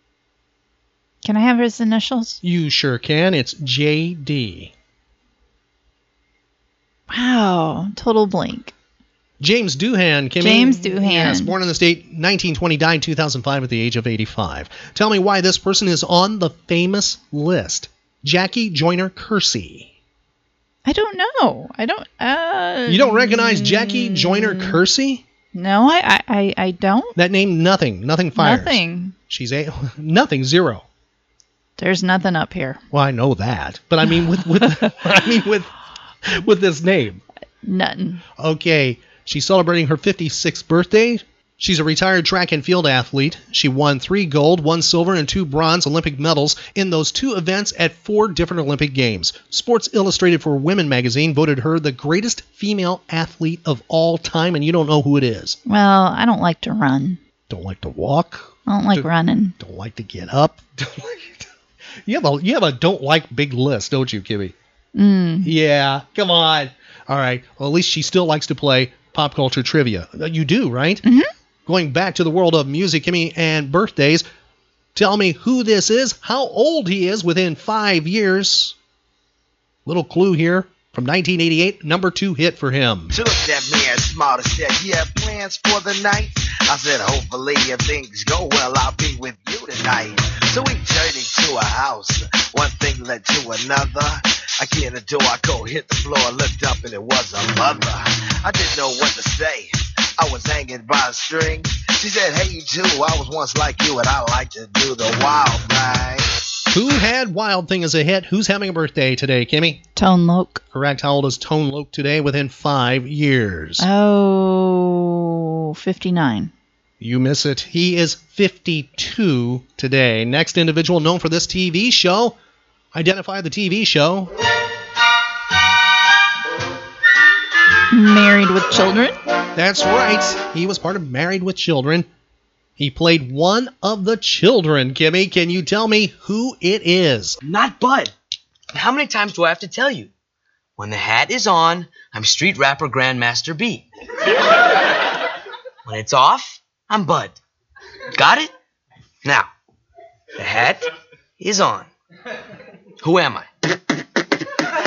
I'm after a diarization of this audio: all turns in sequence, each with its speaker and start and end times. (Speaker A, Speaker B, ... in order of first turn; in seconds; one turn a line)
Speaker A: 1.2-2.4
Speaker B: 2.4-4.7
Speaker A: 7.1-8.7
Speaker B: 9.4-19.9
Speaker A: 10.4-11.5
Speaker A: 20.8-24.8
Speaker B: 22.9-25.2
Speaker A: 25.5-27.1
Speaker B: 27.1-30.8
Speaker A: 28.4-29.1
Speaker A: 31.8-32.8
Speaker B: 32.9-35.7
Speaker B: 36.2-37.2
Speaker A: 37.6-38.2
Speaker B: 38.4-55.6
Speaker A: 55.6-57.2
Speaker B: 57.5-59.1
Speaker A: 58.6-59.5
Speaker B: 59.6-61.5
Speaker B: 62.0-64.5
Speaker A: 64.9-65.5
Speaker B: 65.4-71.0
Speaker B: 71.7-74.2
Speaker B: 74.9-78.7
Speaker B: 79.8-83.1
Speaker C: 83.1-106.3
Speaker B: 106.7-109.8
Speaker A: 110.0-110.6
Speaker B: 110.7-113.8
Speaker A: 113.8-116.5
Speaker B: 117.0-122.3
Speaker B: 122.9-124.3
Speaker A: 127.9-129.2
Speaker B: 129.5-132.1
Speaker B: 132.8-137.4
Speaker D: 137.5-138.1
Speaker D: 138.8-140.1
Speaker D: 140.8-143.8
Speaker D: 145.9-147.3
Speaker D: 150.4-150.8
Speaker D: 151.4-151.8
Speaker D: 153.0-153.4